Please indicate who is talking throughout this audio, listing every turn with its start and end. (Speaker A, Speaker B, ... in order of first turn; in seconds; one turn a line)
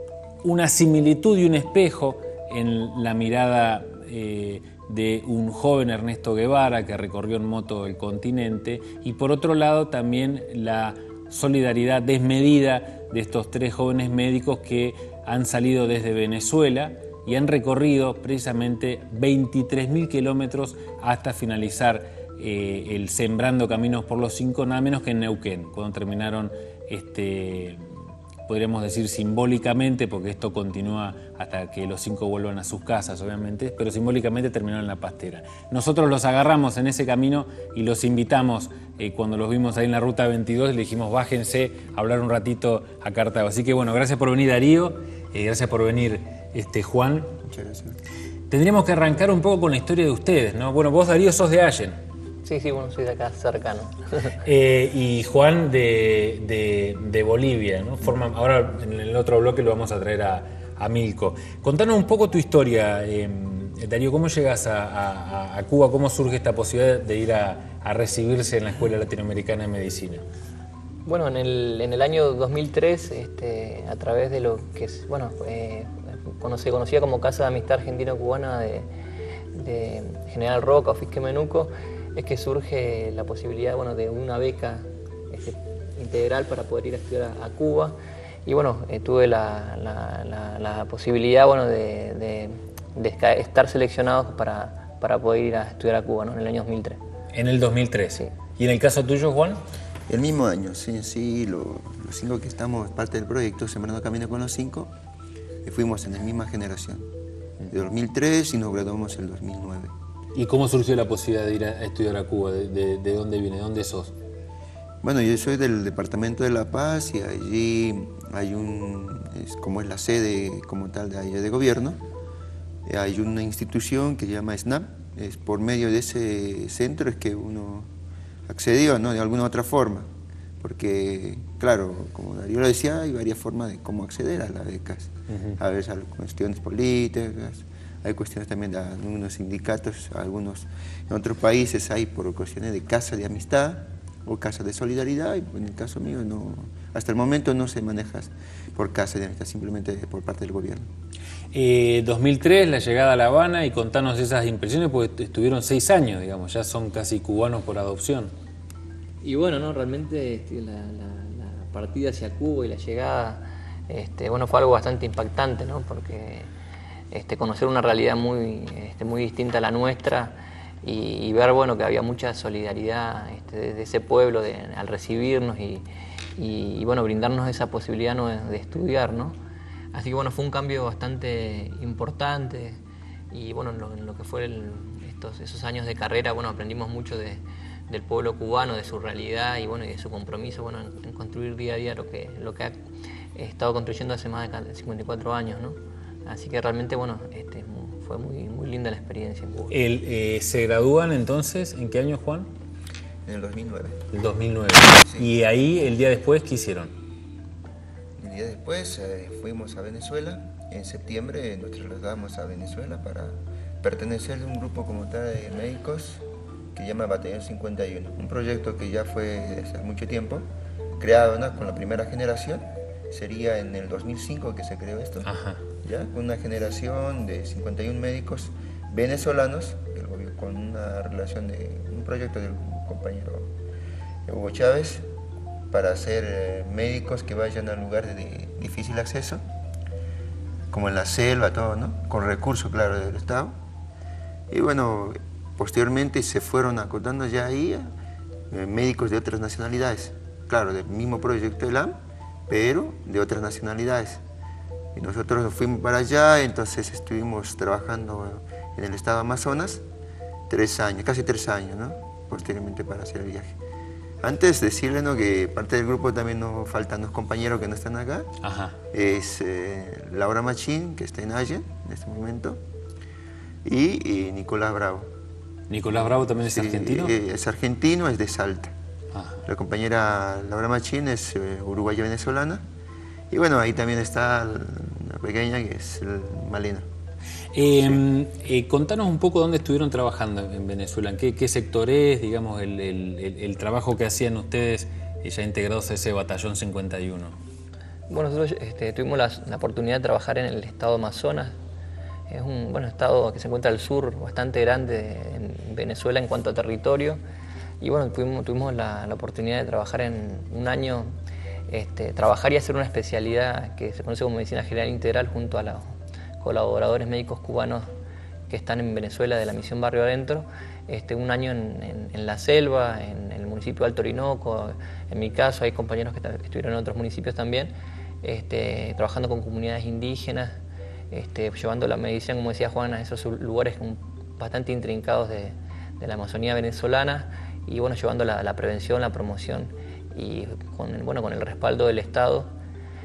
Speaker A: 0.4-27.9
Speaker A: 28.5-47.3
Speaker B: 47.4-48.0
Speaker A: 48.5-52.0
Speaker C: 52.4-54.3
Speaker A: 54.5-70.2
Speaker C: 71.0-78.9
Speaker C: 79.5-97.0
Speaker A: 97.3-99.6
Speaker B: 100.1-104.9
Speaker B: 105.6-107.1
Speaker B: 107.7-109.9
Speaker A: 110.3-114.1
Speaker B: 115.0-122.0
Speaker B: 122.8-127.9
Speaker B: 128.5-130.1
Speaker B: 130.6-150.9
Speaker A: 135.3-135.6
Speaker A: 151.5-158.3
Speaker C: 159.2-166.5
Speaker C: 167.1-179.4
Speaker C: 179.9-182.8
Speaker C: 183.3-192.8
Speaker C: 193.3-199.7
Speaker A: 199.7-202.5
Speaker B: 203.2-204.0
Speaker A: 204.1-206.9
Speaker B: 205.0-205.3
Speaker B: 208.2-220.5
Speaker B: 221.0-225.3
Speaker A: 225.2-225.6
Speaker B: 225.8-233.5
Speaker B: 234.3-235.1
Speaker B: 235.7-239.4
Speaker B: 240.7-243.5
Speaker B: 244.5-247.9
Speaker B: 248.5-252.0
Speaker B: 252.5-254.2
Speaker B: 255.0-259.8
Speaker B: 260.5-263.5
Speaker B: 264.2-268.3
Speaker A: 268.4-268.8
Speaker B: 268.9-272.6
Speaker B: 273.6-275.1
Speaker A: 275.7-277.1
Speaker B: 275.9-278.7
Speaker A: 279.1-279.4
Speaker B: 279.5-282.6
Speaker B: 283.3-286.9
Speaker A: 287.5-297.4
Speaker C: 298.1-301.6
Speaker C: 302.3-307.2
Speaker C: 307.8-311.1
Speaker C: 311.7-317.9
Speaker C: 318.5-330.6
Speaker C: 331.1-342.5